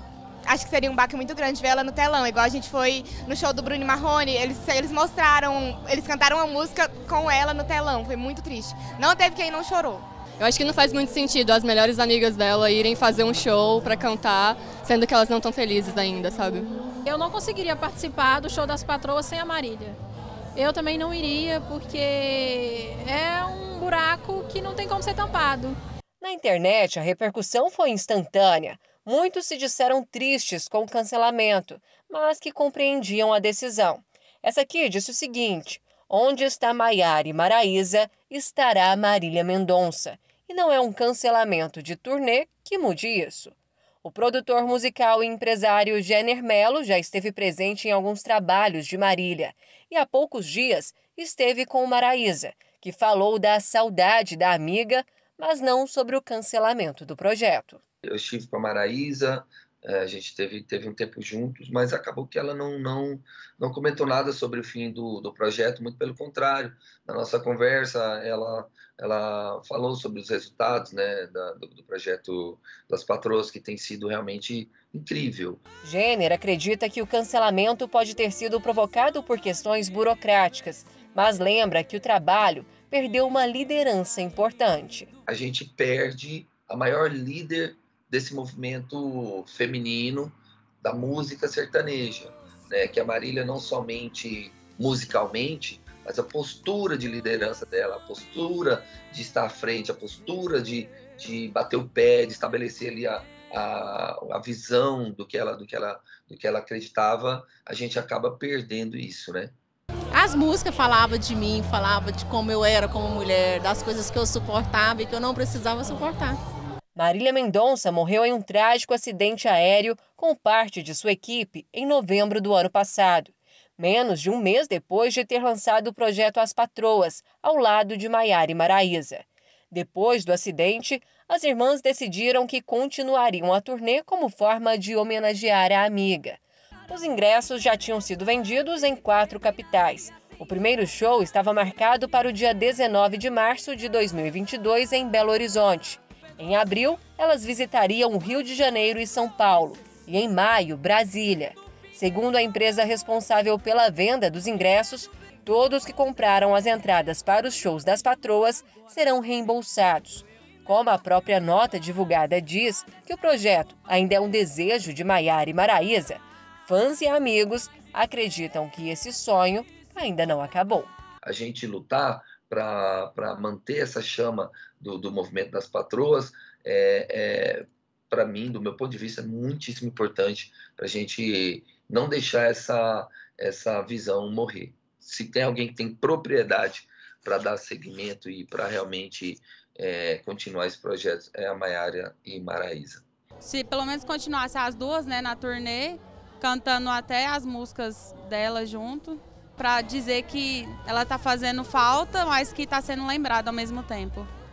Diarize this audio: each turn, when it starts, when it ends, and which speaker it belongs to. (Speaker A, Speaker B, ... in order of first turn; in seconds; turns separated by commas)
Speaker A: 0.5-10.1, Speaker B: 10.4-16.7, Speaker C: 17.1-20.0, Speaker C: 20.6-25.8, Speaker D: 26.2-57.8, Speaker E: 58.1-75.6, Speaker D: 75.8-85.1, Speaker E: 85.3-109.5, Speaker F: 110.1-116.4, Speaker D: 117.0-170.9, Speaker E: 171.2-193.0, Speaker G: 193.4-204.3